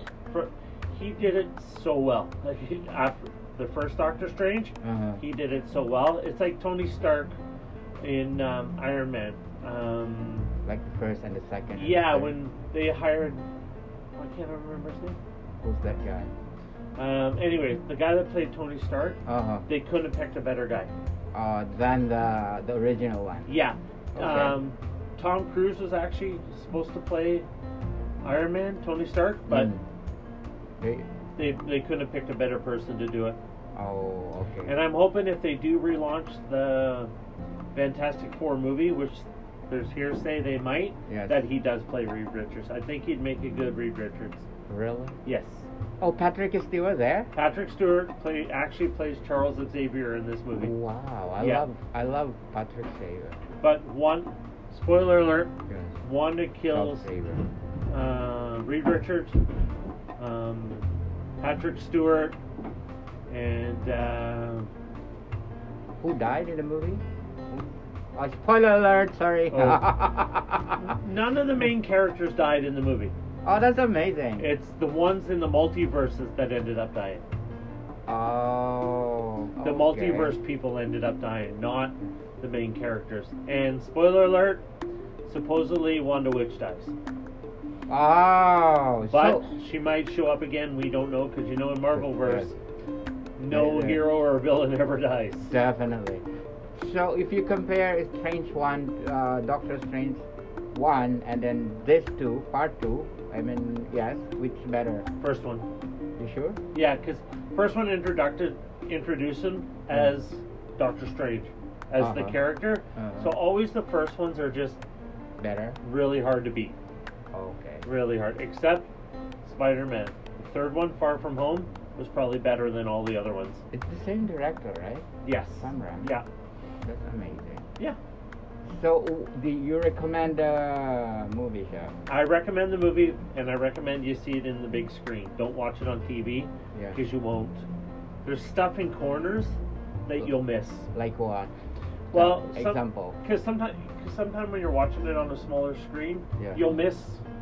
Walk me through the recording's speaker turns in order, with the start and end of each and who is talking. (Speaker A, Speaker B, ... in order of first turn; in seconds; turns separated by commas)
Speaker A: 0.3-7.4, Speaker B: 4.8-5.2, Speaker A: 8.0-10.5, Speaker B: 10.7-12.4, Speaker A: 11.8-13.4, Speaker A: 14.2-15.2, Speaker B: 15.6-16.3, Speaker A: 17.0-20.9, Speaker B: 19.3-19.7, Speaker B: 21.3-23.5, Speaker A: 23.5-27.5, Speaker B: 24.1-24.6, Speaker A: 28.2-29.7, Speaker B: 29.5-29.8, Speaker B: 30.8-31.1, Speaker A: 31.4-33.4, Speaker B: 33.8-34.8, Speaker A: 34.7-37.1, Speaker A: 37.8-44.5, Speaker B: 41.1-41.4, Speaker B: 44.7-45.2, Speaker A: 45.2-45.7, Speaker B: 46.0-47.3, Speaker A: 47.3-50.8, Speaker B: 50.6-53.4, Speaker A: 51.4-51.7, Speaker A: 53.6-57.1, Speaker B: 55.7-56.0, Speaker B: 56.7-57.5, Speaker A: 57.9-59.4, Speaker A: 60.2-60.9, Speaker A: 61.4-62.4, Speaker A: 63.3-64.7, Speaker B: 66.0-71.0, Speaker A: 69.5-69.9, Speaker A: 70.8-73.1, Speaker B: 73.5-74.5, Speaker A: 74.4-77.2, Speaker B: 78.1-80.4, Speaker A: 79.6-84.6, Speaker A: 85.2-86.9, Speaker B: 87.9-89.5, Speaker A: 89.1-92.5, Speaker B: 91.9-92.5, Speaker A: 93.4-95.5, Speaker B: 93.5-94.0, Speaker B: 95.5-96.2, Speaker B: 96.8-105.1, Speaker A: 105.2-105.7, Speaker B: 106.2-106.6, Speaker A: 106.7-114.8, Speaker B: 112.0-112.4, Speaker B: 113.0-113.4, Speaker B: 115.4-115.8, Speaker A: 115.8-116.8, Speaker B: 117.3-117.9, Speaker A: 117.8-118.9, Speaker A: 119.4-123.6, Speaker B: 123.7-125.1, Speaker A: 125.2-126.2, Speaker B: 125.6-126.2, Speaker B: 126.8-127.7, Speaker B: 128.7-131.9, Speaker A: 132.1-137.6, Speaker A: 138.2-140.9, Speaker B: 140.9-141.5, Speaker B: 142.1-143.2, Speaker A: 142.1-147.2, Speaker B: 146.4-146.7